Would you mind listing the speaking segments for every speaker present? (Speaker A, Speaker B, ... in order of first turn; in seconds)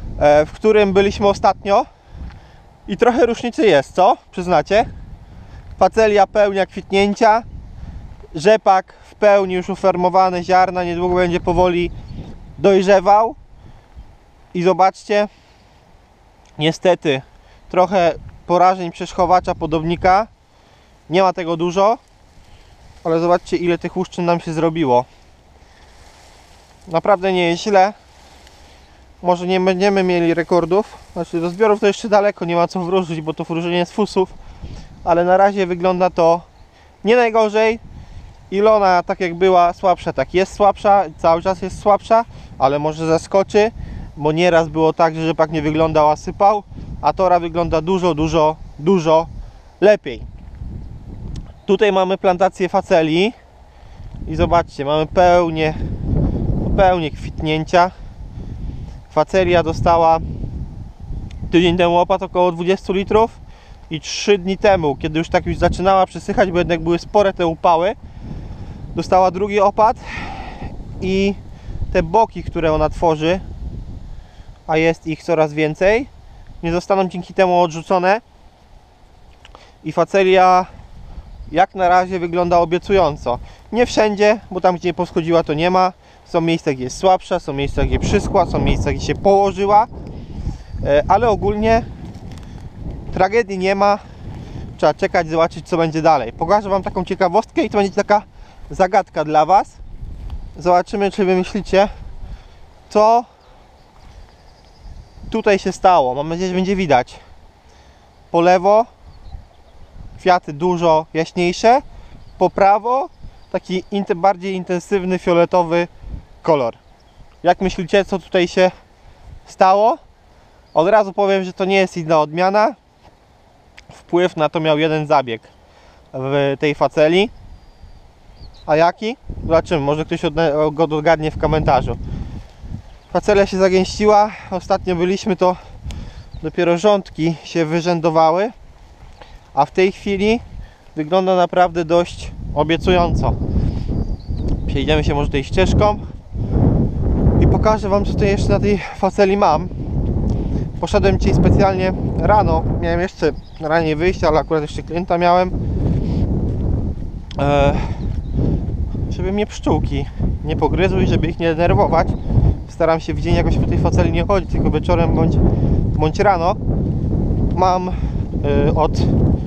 Speaker A: 0.2-1.9, 2.9-4.9, 5.8-7.5, 8.3-11.9, 12.6-13.4, 14.5-15.3, 16.6-20.3, 21.1-22.0, 23.0-25.1, 26.9-27.9, 29.2-34.3, 35.0-36.5, 37.0-37.8, 38.5-49.3, 49.8-50.3, 51.6-53.4, 54.2-55.8, 56.6-57.9, 59.1-60.2, 61.5-68.0, 68.9-71.4, 71.9-73.4, 74.7-76.1, 76.6-78.2, 79.8-80.7, 81.5-89.9, 90.8-91.8, 93.1-94.0, 94.8-99.8, 100.5-101.9, 102.9-103.3, 105.3-107.2, 108.3-108.9, 110.2-111.8, 112.4-115.9, 116.4-116.8, 117.4-118.7, 119.5-120.0, 120.7-122.8, 123.9-125.5, 126.1-127.3, 128.7-132.0, 133.1-135.6, 136.4-138.5, 139.5-140.4, 140.9-143.3, 144.6-146.0, 147.4-149.7, 150.8-155.5, 157.3-158.1, 159.1-165.4, 165.9-166.6, 167.5-169.2